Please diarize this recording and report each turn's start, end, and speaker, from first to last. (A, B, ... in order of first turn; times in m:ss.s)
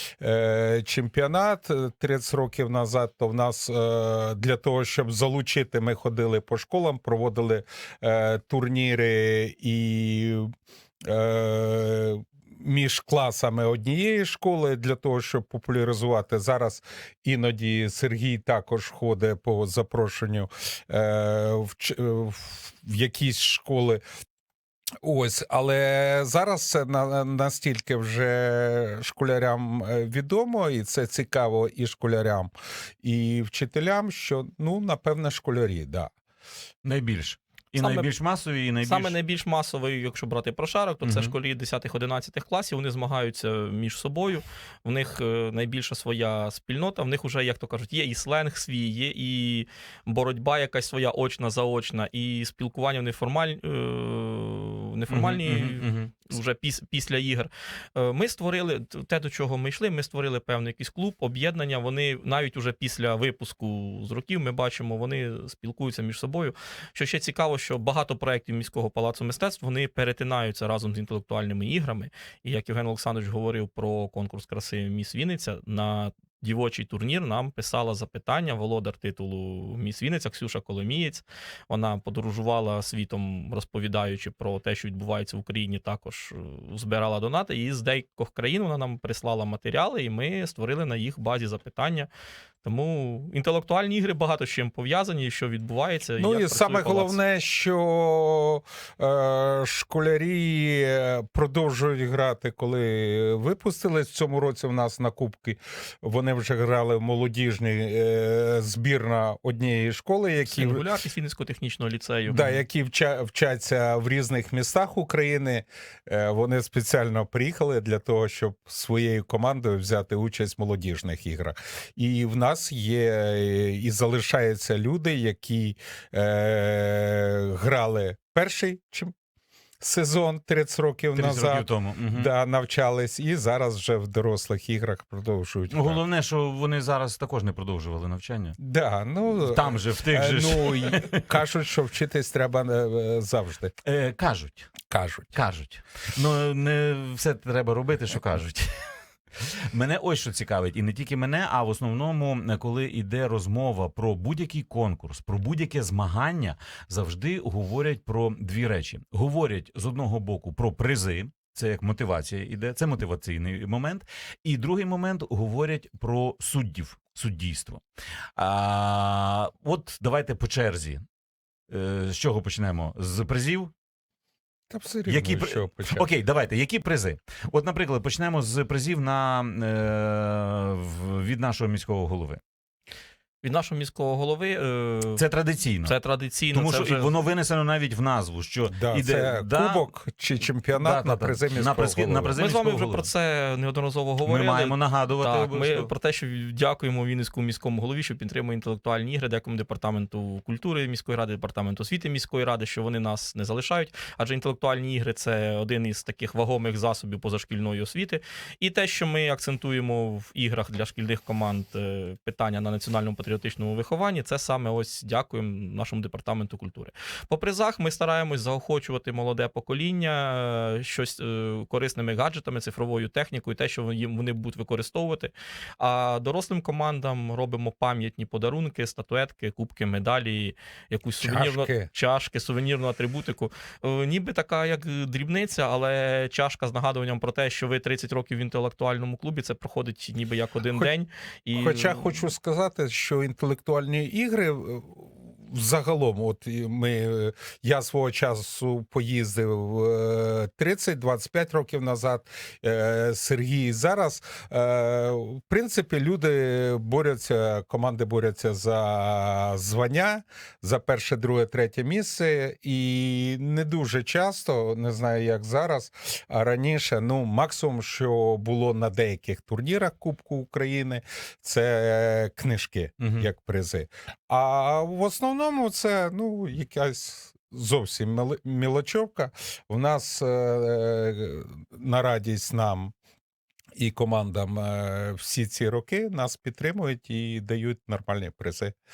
0:00.2-0:10.5 A
0:11.0-0:24.0 A
0:25.0-0:32.5 A
0:33.0-0:36.1 A
0:36.8-0:39.1 B
0:37.8-0:38.1 C
0:38.8-1:32.1 C
0:41.0-0:41.3 B
0:55.1-0:56.1 B
1:32.6-1:37.2 C
1:36.2-1:50.8 A
1:50.5-1:52.6 C
1:52.3-2:09.1 A
2:09.8-2:16.0 A
2:11.2-2:12.3 B
2:15.7-2:18.6 B
2:18.6-2:23.7 A
2:19.4-2:21.2 B
2:23.8-2:24.7 B
2:24.9-2:25.4 A
2:25.3-2:28.7 B
2:29.7-2:47.8 B
2:48.4-2:51.0 B
2:51.7-2:53.7 B
2:54.7-2:56.1 A
2:55.1-3:02.4 B
3:03.4-3:05.2 C
3:05.2-3:06.0 B
3:05.8-3:07.1 C
3:06.5-3:09.8 B
3:08.7-3:12.4 A
3:10.8-3:13.1 B
3:12.4-4:02.2 C
3:14.2-3:15.9 B
3:51.2-3:51.9 A
4:01.5-4:42.9 A
4:33.0-4:33.3 B
4:43.8-4:48.8 A